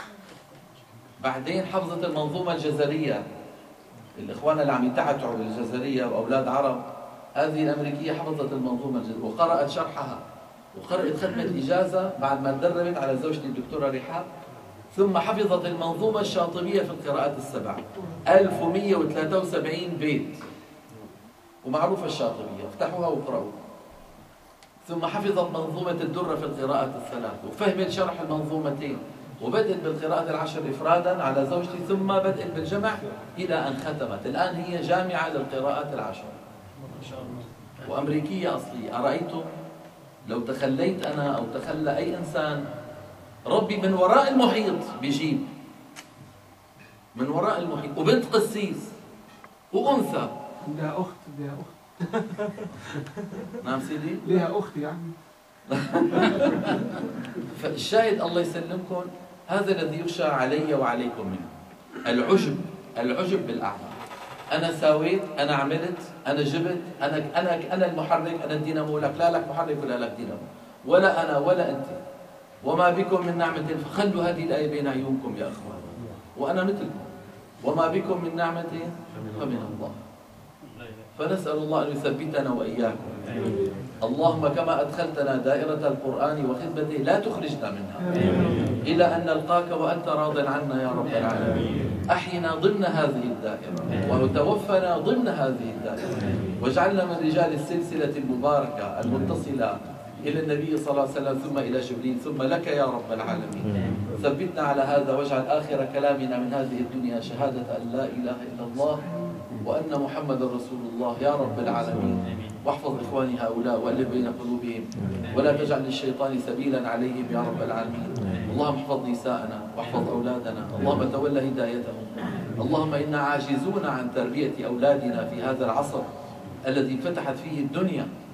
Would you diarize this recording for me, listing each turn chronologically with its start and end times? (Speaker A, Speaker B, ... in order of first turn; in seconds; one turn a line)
Speaker A: 1.2-3.2
Speaker A: 4.2-6.8
Speaker A: 7.4-10.2
Speaker A: 10.7-14.3
Speaker A: 14.9-20.4
Speaker A: 21.6-23.6
Speaker A: 24.9-36.4
Speaker A: 37.8-39.5
Speaker A: 40.3-42.6
Speaker A: 43.5-45.5
Speaker A: 47.1-49.0
Speaker A: 49.7-50.3
Speaker B: 50.6-53.4
Speaker A: 53.6-54.3
Speaker B: 54.2-55.2
Speaker A: 55.7-57.0
Speaker B: 56.3-56.8
Speaker A: 57.5-61.5
Speaker A: 62.0-64.0
Speaker A: 64.5-72.0
Speaker A: 72.6-80.0
Speaker A: 81.2-83.2
Speaker A: 84.0-109.0
Speaker B: 88.1-88.7
Speaker A: 109.6-126.1
Speaker A: 126.7-128.1